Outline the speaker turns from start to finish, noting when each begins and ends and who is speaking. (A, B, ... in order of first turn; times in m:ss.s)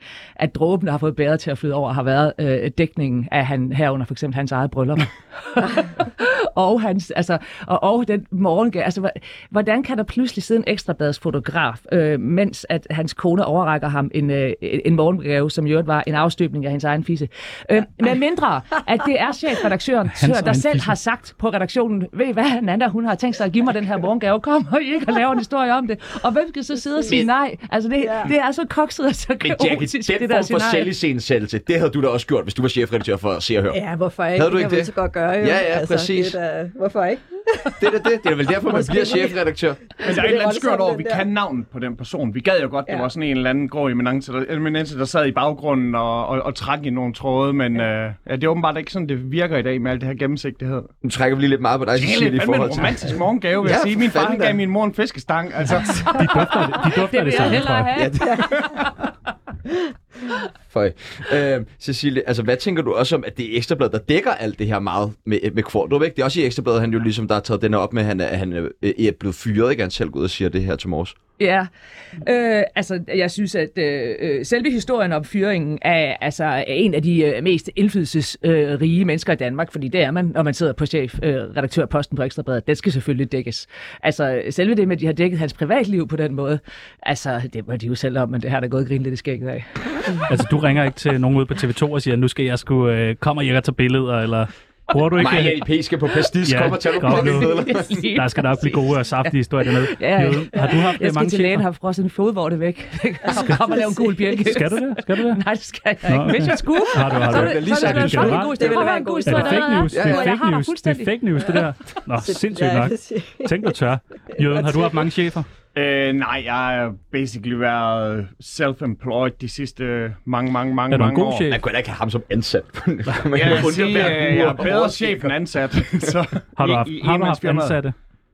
0:00.4-0:30.9 A
0:20.2-0:20.9 B
0:28.0-0:28.3 C
0:29.4-0:33.8 D
0:33.7-0:39.4 C
0:34.3-0:36.4 D
0:37.8-0:39.9 D
0:40.0-0:41.2 C
0:40.0-0:50.9 E
0:51.0-0:54.6 D
0:52.0-0:56.2 E
0:56.0-0:58.6 A
0:56.1-0:57.9 B
0:58.0-0:58.4 D
1:00.7-1:11.2 D
1:11.4-1:29.8 A
1:30.3-1:35.6 B
1:35.2-1:38.0 D
1:36.4-1:41.6 B
1:37.0-1:51.5 A
1:44.4-1:45.4 B
1:46.1-1:55.5 B
1:47.3-1:48.4 D
1:47.6-1:49.8 C
1:49.9-1:50.3 D
1:52.2-1:53.7 C
1:54.4-1:55.0 C
1:55.7-2:01.5 E
2:00.9-2:01.6 B
2:01.5-2:05.3 D
2:03.1-2:03.6 B
2:03.3-2:07.8 E
2:06.6-2:08.0 B